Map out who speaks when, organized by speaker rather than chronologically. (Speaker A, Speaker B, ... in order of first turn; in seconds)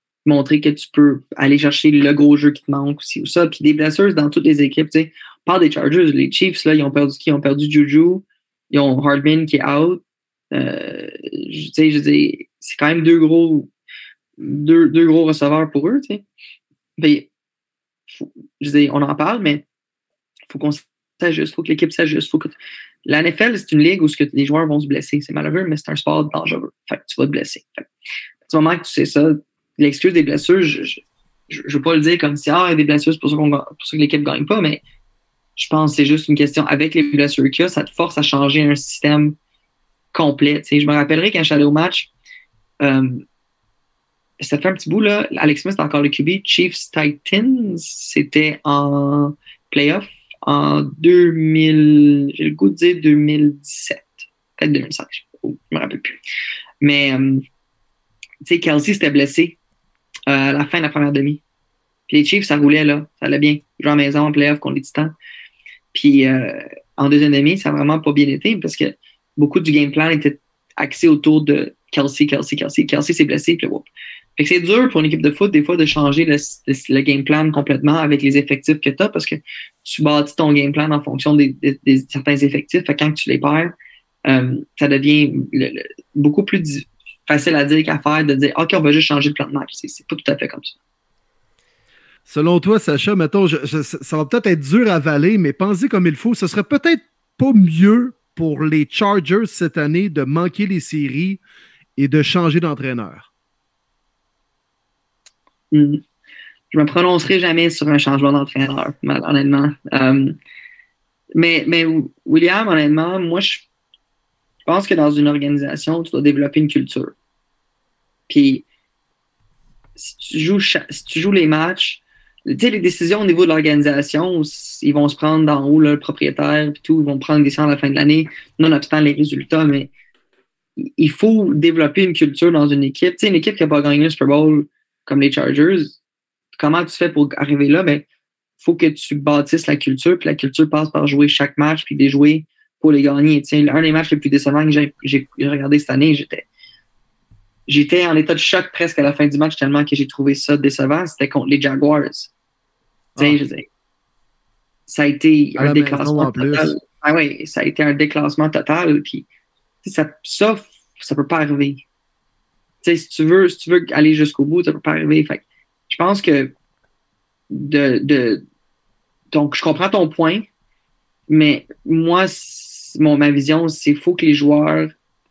Speaker A: 0.2-13.7, 14.4-16.2, 17.0-17.3, 18.1-19.6, 20.5-22.6, 23.1-27.9, 28.5-34.8, 35.6-39.4, 40.1-42.1, 42.8-43.2, 44.4-56.2, 56.8-57.4, 58.4-59.6, 60.3-61.4, 62.1-65.1, 65.9-83.7, 84.3-90.8, 105.7-106.0, 106.7-110.4, 111.3-113.7, 114.7-117.1, 118.3-118.7, 120.0-129.9, 130.8-136.0, 136.6-138.1, 138.6-146.5, 147.7-152.3, 153.2-153.7, 154.9-159.3, 159.8-161.8, 162.8-166.5, 167.5-168.4, 169.3-170.5, 171.3-174.9
Speaker B: 92.3-101.4, 102.0-103.3, 153.2-153.4, 155.6-156.7